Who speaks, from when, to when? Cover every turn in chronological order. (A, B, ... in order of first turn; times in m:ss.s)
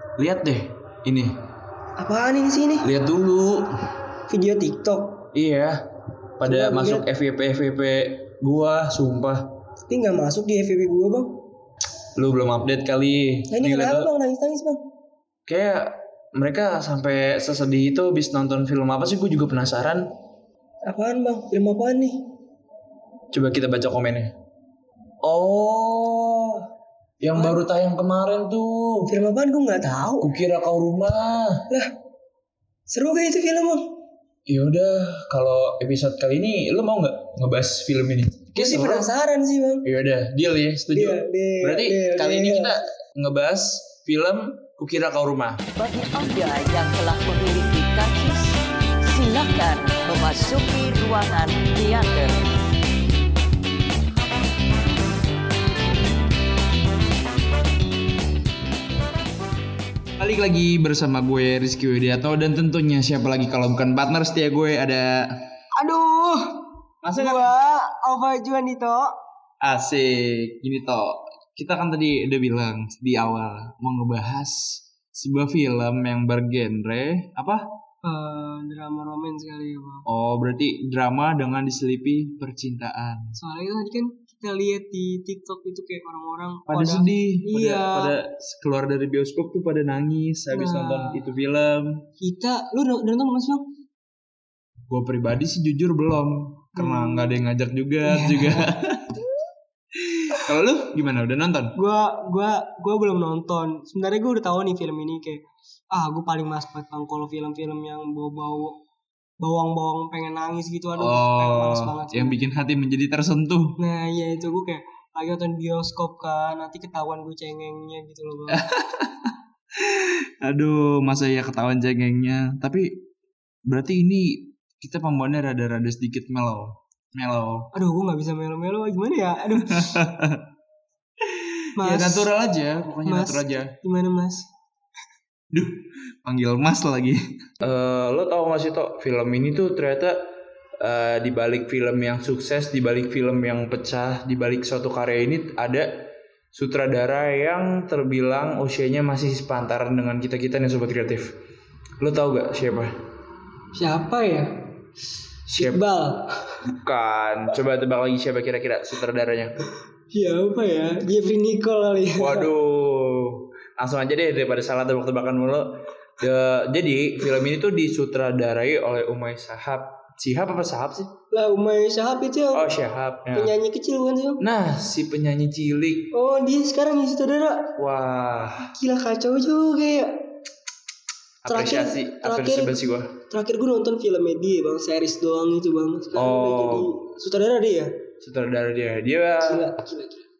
0:00.2-0:01.4 A
0:02.0-0:02.9 B
0:02.8-0:03.7 A
0:04.3-0:05.3 B
0:05.3-0:05.8 A
0:06.4-0:09.5 A
0:06.5-0:07.1 B
0:09.9-0:11.4 B
0:12.2-0:14.1 A
0:13.5-0:14.8 B
0:15.5-0:20.1 A
0:20.9-0:22.3 B
0:23.3-0:24.3 A
0:25.2-0:26.6 A
0:27.2-0:29.1 A
0:29.1-0:30.3 B
0:30.2-0:31.7 A
0:32.9-0:34.0 B
0:34.5-0:39.1 A
0:38.5-0:39.9 B
0:39.8-0:45.6 A
0:40.9-0:42.8 B
0:45.8-0:52.5 C
1:00.2-1:05.5 A
1:05.8-1:06.6 B
1:07.0-1:07.6 A
1:07.2-1:09.2 B
1:09.6-1:17.8 A
1:18.0-1:20.1 B
1:20.1-1:23.4 A
1:23.4-1:28.2 B
1:26.7-1:32.1 A
1:30.5-1:31.2 B
1:32.2-1:33.7 B
1:34.9-1:39.2 A
1:36.8-1:37.4 B
1:38.1-1:38.7 B
1:39.9-1:41.8 A
1:41.8-1:48.8 B
1:49.4-1:52.4 B
1:51.0-1:53.8 A
1:53.8-1:58.6 B
1:58.5-2:03.1 A
2:03.7-2:07.7 A
2:07.7-2:10.0 B
2:09.7-2:10.5 A
2:11.2-2:13.8 A
2:11.8-2:12.3 B
2:13.0-2:14.5 B
2:15.5-2:20.3 A
2:20.8-2:31.4 A
2:32.0-2:33.0 A
2:33.8-2:34.6 B
2:35.5-2:35.8 A
2:35.6-2:36.6 B
2:36.6-2:39.6 A
2:40.1-2:42.5 B
2:42.2-2:51.1 A
2:51.3-2:52.7 B
2:52.5-2:53.5 A
2:53.3-2:54.4 B
2:54.4-2:56.1 A
2:56.1-2:57.8 B
2:57.8-2:58.7 A
2:58.7-3:00.2 B
3:01.4-3:03.1 A
3:01.5-3:02.8 B
3:03.3-3:08.0 B
3:06.2-3:07.0 A
3:08.2-3:09.7 A
3:09.4-3:10.2 B